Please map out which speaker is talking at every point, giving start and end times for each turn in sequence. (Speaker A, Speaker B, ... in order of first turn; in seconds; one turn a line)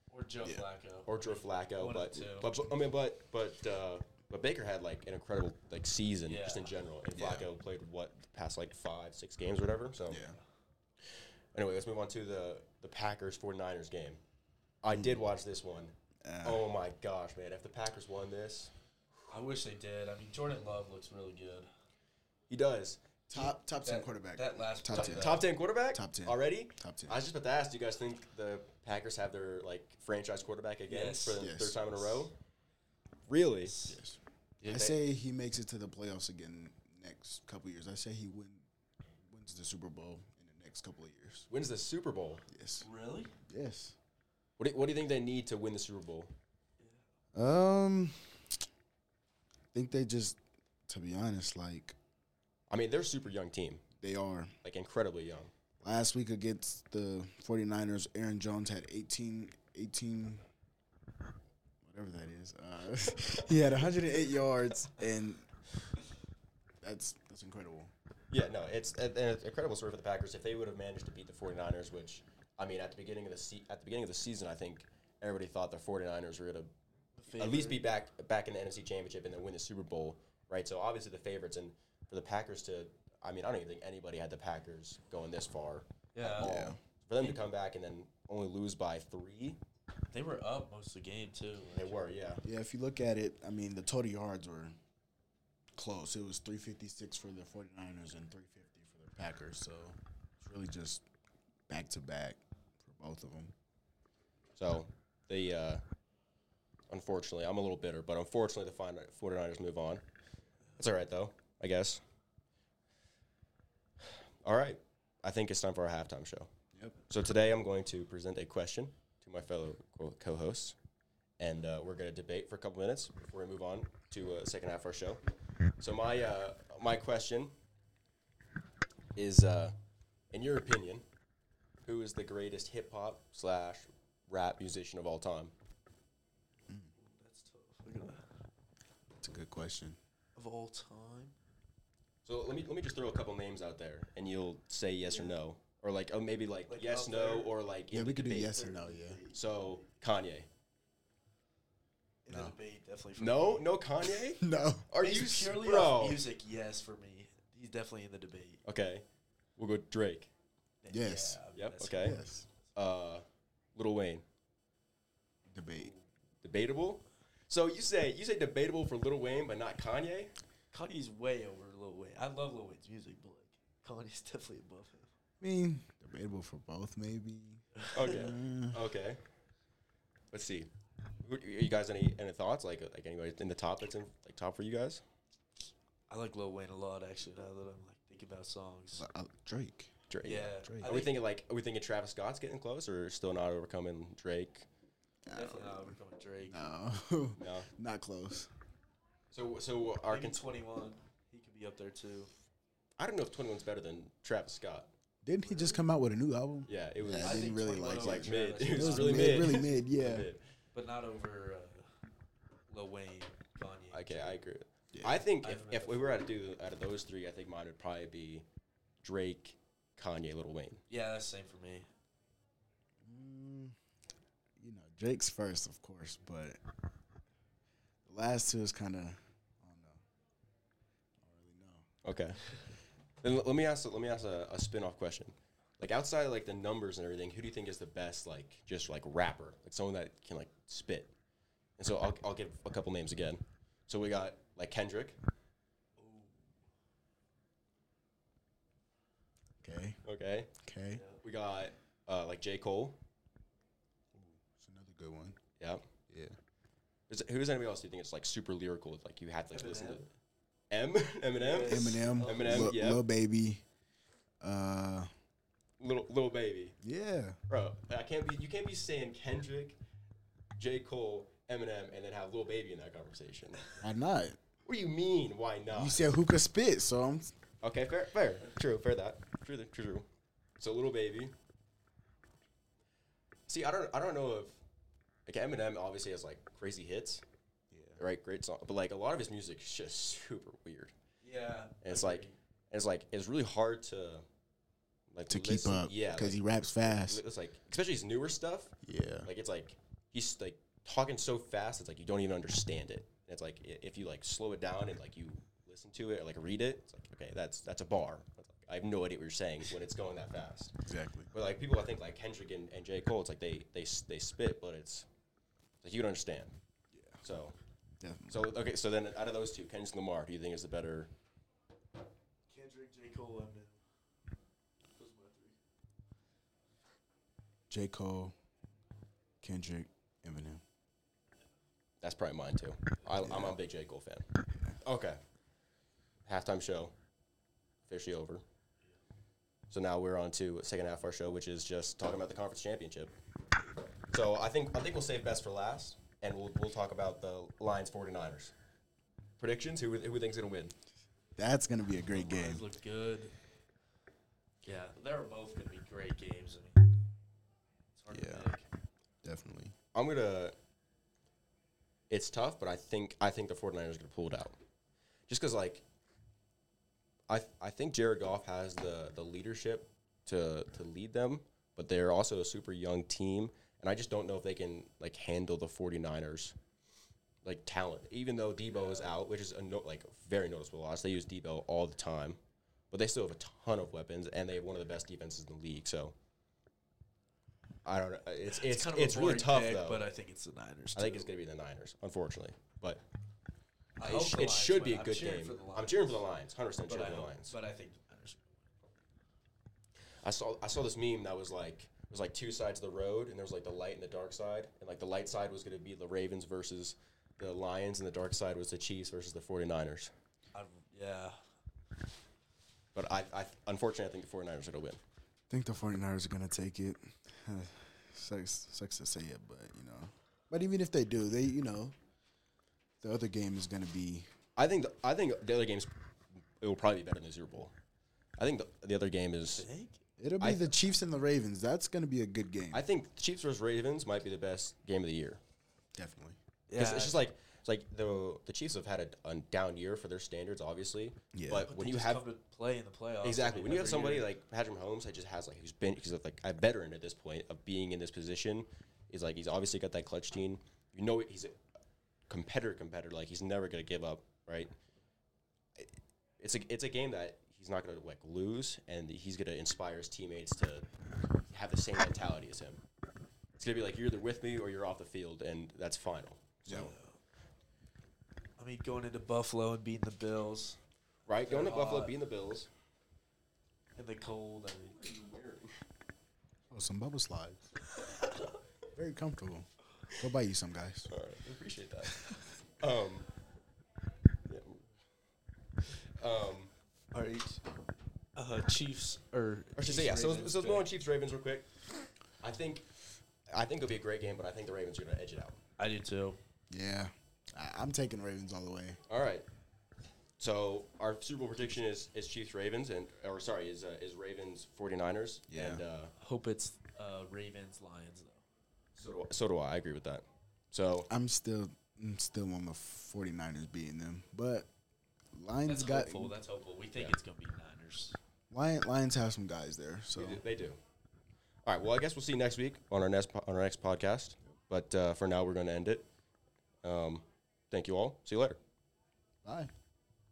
Speaker A: 0.1-2.6
Speaker B: 0.4-0.7
Speaker C: 1.1-10.2
Speaker A: 6.3-6.8
Speaker B: 7.2-7.5
Speaker B: 10.1-10.4
Speaker C: 11.5-14.2
Speaker C: 14.8-19.2
Speaker B: 14.9-15.3
Speaker B: 16.2-16.7
Speaker A: 19.3-21.7
Speaker C: 22.5-23.2
Speaker B: 23.3-27.2
Speaker A: 23.3-25.5
Speaker C: 24.9-32.3
Speaker A: 30.9-32.3
Speaker B: 31.4-31.9
Speaker C: 33.3-33.8
Speaker A: 33.6-34.0
Speaker B: 33.9-38.7
Speaker C: 34.6-35.0
Speaker B: 39.2-41.5
Speaker C: 41.5-42.5
Speaker B: 42.5-42.9
Speaker A: 42.8-43.3
Speaker B: 43.5-44.0
Speaker C: 44.6-46.3
Speaker B: 47.4-48.6
Speaker B: 49.7-52.0
Speaker C: 52.7-53.8
Speaker B: 54.0-54.5
Speaker C: 54.6-55.5
Speaker B: 55.8-60.4
Speaker B: 61.8-65.5
Speaker C: 63.1-63.9
Speaker B: 66.8-67.9
Speaker C: 68.3-76.7
Speaker A: 77.2-77.8
Speaker C: 77.3-89.6
Speaker A: 86.2-86.6
Speaker B: 86.4-86.8
Speaker A: 90.1-92.0
Speaker C: 91.8-92.4
Speaker B: 92.4-94.8
Speaker B: 95.8-101.0
Speaker B: 101.7-103.5
Speaker C: 104.5-105.8
Speaker C: 106.9-110.0
Speaker C: 110.8-112.0
Speaker C: 114.4-116.5
Speaker C: 117.1-120.8
Speaker C: 121.4-125.2
Speaker C: 125.8-127.5
Speaker C: 129.2-129.8
Speaker C: 130.3-131.0
Speaker C: 131.8-135.5
Speaker A: 137.0-138.2
Speaker B: 139.2-140.0
Speaker A: 140.4-141.3
Speaker C: 142.2-148.5
Speaker A: 145.0-145.4
Speaker A: 146.7-147.5
Speaker B: 147.9-149.2
Speaker A: 148.2-149.9
Speaker C: 149.3-150.5
Speaker A: 152.2-153.7
Speaker B: 152.3-152.6
Speaker C: 153.2-156.3
Speaker B: 154.4-154.9
Speaker A: 155.0-158.6
Speaker C: 158.7-159.1
Speaker C: 159.6-160.3
Speaker A: 160.8-162.5
Speaker B: 160.9-161.4
Speaker C: 161.5-162.2
Speaker B: 162.0-162.5
Speaker C: 162.8-163.2
Speaker C: 163.8-164.2
Speaker B: 165.5-165.9
Speaker A: 165.7-166.1
Speaker C: 166.4-170.3
Speaker A: 170.7-175.1
Speaker B: 175.4-178.8
Speaker A: 177.8-178.2
Speaker C: 177.9-179.2
Speaker C: 180.3-180.7
Speaker C: 181.2-185.0
Speaker A: 186.1-189.1
Speaker B: 189.0-189.9
Speaker C: 190.1-194.7
Speaker A: 190.2-191.2
Speaker B: 190.6-190.9
Speaker B: 195.3-198.5
Speaker A: 195.3-196.6
Speaker C: 197.4-197.7
Speaker C: 199.3-200.5
Speaker A: 200.1-202.3
Speaker C: 203.0-204.9
Speaker B: 205.2-210.3
Speaker A: 205.4-205.8
Speaker C: 206.7-210.4
Speaker A: 207.2-209.9
Speaker A: 210.7-211.9
Speaker A: 212.7-214.4
Speaker C: 213.9-218.4
Speaker B: 214.9-215.3
Speaker A: 215.4-216.3
Speaker C: 219.0-220.8
Speaker A: 220.9-221.9
Speaker B: 223.0-223.8
Speaker B: 224.6-226.6
Speaker B: 228.1-230.0
Speaker B: 231.2-231.9
Speaker C: 232.0-232.5
Speaker C: 233.2-241.1
Speaker C: 241.8-245.2
Speaker A: 246.0-246.5
Speaker B: 249.6-250.0
Speaker C: 250.0-250.6
Speaker B: 250.6-251.0
Speaker A: 250.9-251.2
Speaker C: 251.2-253.0
Speaker B: 254.1-255.4
Speaker C: 255.6-255.8
Speaker B: 256.1-256.3
Speaker C: 257.1-260.1
Speaker A: 259.5-260.1
Speaker C: 260.7-263.0
Speaker A: 261.4-262.8
Speaker B: 261.6-263.6
Speaker B: 264.4-265.1
Speaker C: 265.8-266.8
Speaker B: 266.8-267.4
Speaker C: 267.5-269.8
Speaker C: 270.6-273.7
Speaker B: 273.8-274.4
Speaker C: 274.6-276.1
Speaker B: 275.7-277.4
Speaker C: 277.6-280.1
Speaker C: 280.6-281.3
Speaker C: 283.5-284.6
Speaker C: 285.3-287.2
Speaker B: 287.7-288.0
Speaker C: 288.0-290.9
Speaker A: 291.2-292.4
Speaker C: 291.8-294.2
Speaker C: 295.1-310.8
Speaker B: 295.3-297.2
Speaker B: 298.8-299.3
Speaker B: 310.9-311.3
Speaker C: 311.3-315.1
Speaker C: 315.8-316.6
Speaker B: 316.9-317.2
Speaker C: 317.2-317.6
Speaker B: 318.0-318.4
Speaker C: 318.3-321.1
Speaker A: 322.5-323.8
Speaker A: 325.0-325.6
Speaker B: 327.7-328.3
Speaker B: 329.4-330.6
Speaker C: 332.0-334.3
Speaker B: 333.2-333.6
Speaker C: 334.8-335.2
Speaker C: 336.2-336.9
Speaker C: 337.9-338.4
Speaker C: 339.7-343.1
Speaker C: 344.1-348.5
Speaker C: 349.4-350.7
Speaker B: 351.4-352.7
Speaker A: 352.1-353.3
Speaker A: 354.6-356.9
Speaker A: 358.0-358.7
Speaker B: 358.1-358.5
Speaker B: 359.2-359.8
Speaker C: 359.9-360.6
Speaker C: 362.1-364.6
Speaker C: 365.3-365.8
Speaker C: 367.3-376.6
Speaker C: 377.4-382.4
Speaker A: 378.7-379.2
Speaker C: 382.9-386.1
Speaker C: 387.9-390.1
Speaker A: 388.4-391.3
Speaker C: 390.9-393.0
Speaker A: 394.0-396.2
Speaker C: 394.0-397.6
Speaker A: 396.9-398.6
Speaker C: 400.2-410.1
Speaker A: 410.5-411.4
Speaker C: 412.9-415.0
Speaker B: 415.5-421.9
Speaker B: 423.0-424.3
Speaker C: 424.6-425.9
Speaker C: 426.6-427.7
Speaker C: 428.4-429.7
Speaker A: 429.6-430.0
Speaker B: 430.2-432.8
Speaker C: 430.4-430.8
Speaker C: 432.7-435.4
Speaker B: 436.0-436.4
Speaker A: 436.7-437.3
Speaker C: 436.7-442.2
Speaker B: 441.3-441.7
Speaker A: 441.7-444.3
Speaker C: 443.2-451.6
Speaker C: 452.3-454.7
Speaker C: 456.4-460.9
Speaker C: 461.5-462.8
Speaker C: 463.6-466.9
Speaker B: 466.7-466.9
Speaker A: 466.8-467.2
Speaker A: 468.6-470.8
Speaker C: 471.3-472.7
Speaker A: 471.4-472.2
Speaker A: 474.0-475.2
Speaker C: 474.8-475.7
Speaker B: 476.7-477.7
Speaker A: 477.9-478.5
Speaker B: 478.9-481.1
Speaker C: 481.1-482.2
Speaker C: 482.8-483.3
Speaker C: 484.5-484.8
Speaker C: 486.0-486.7
Speaker A: 487.1-487.6
Speaker A: 488.4-490.9
Speaker C: 489.8-491.7
Speaker C: 492.4-493.0
Speaker C: 493.5-495.6
Speaker A: 495.8-496.4
Speaker B: 496.7-499.0
Speaker C: 499.1-499.5
Speaker C: 500.4-506.1
Speaker B: 505.5-505.8
Speaker A: 506.2-508.4
Speaker C: 509.0-511.1
Speaker B: 511.1-514.7
Speaker B: 515.3-516.4
Speaker A: 515.6-518.2
Speaker B: 518.5-520.4
Speaker C: 520.1-520.8
Speaker C: 521.7-526.0
Speaker C: 526.8-528.6
Speaker B: 529.4-529.7